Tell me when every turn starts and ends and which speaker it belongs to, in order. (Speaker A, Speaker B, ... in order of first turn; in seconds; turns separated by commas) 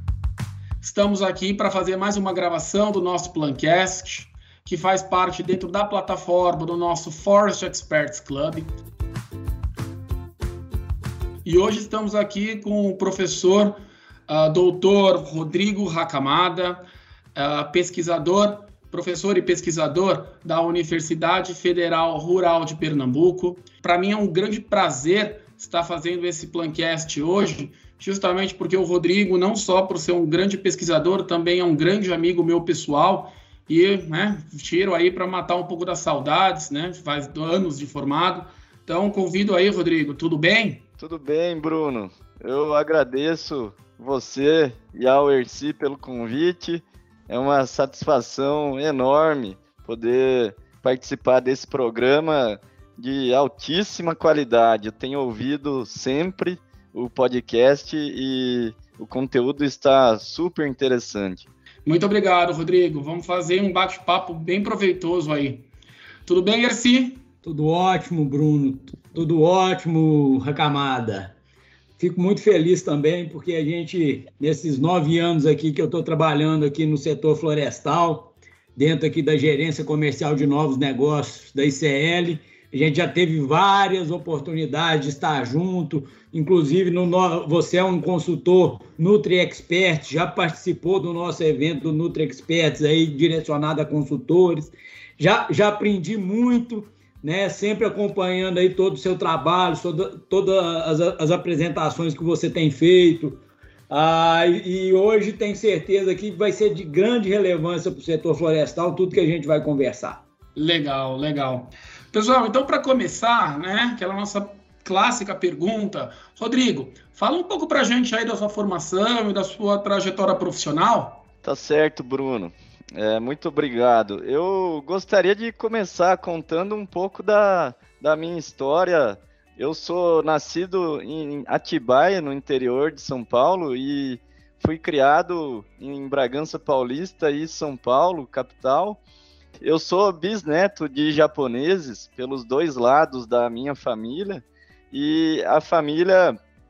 Speaker A: 0.8-8.7, Speaker A: 11.4-16.9, Speaker A: 17.4-40.8, Speaker B: 41.0-61.5, Speaker A: 61.9-65.7, Speaker A: 66.3-67.2, Speaker C: 67.4-71.3, Speaker C: 72.0-110.2, Speaker A: 110.6-121.2, Speaker B: 121.4-139.0, Speaker B: 139.6-146.4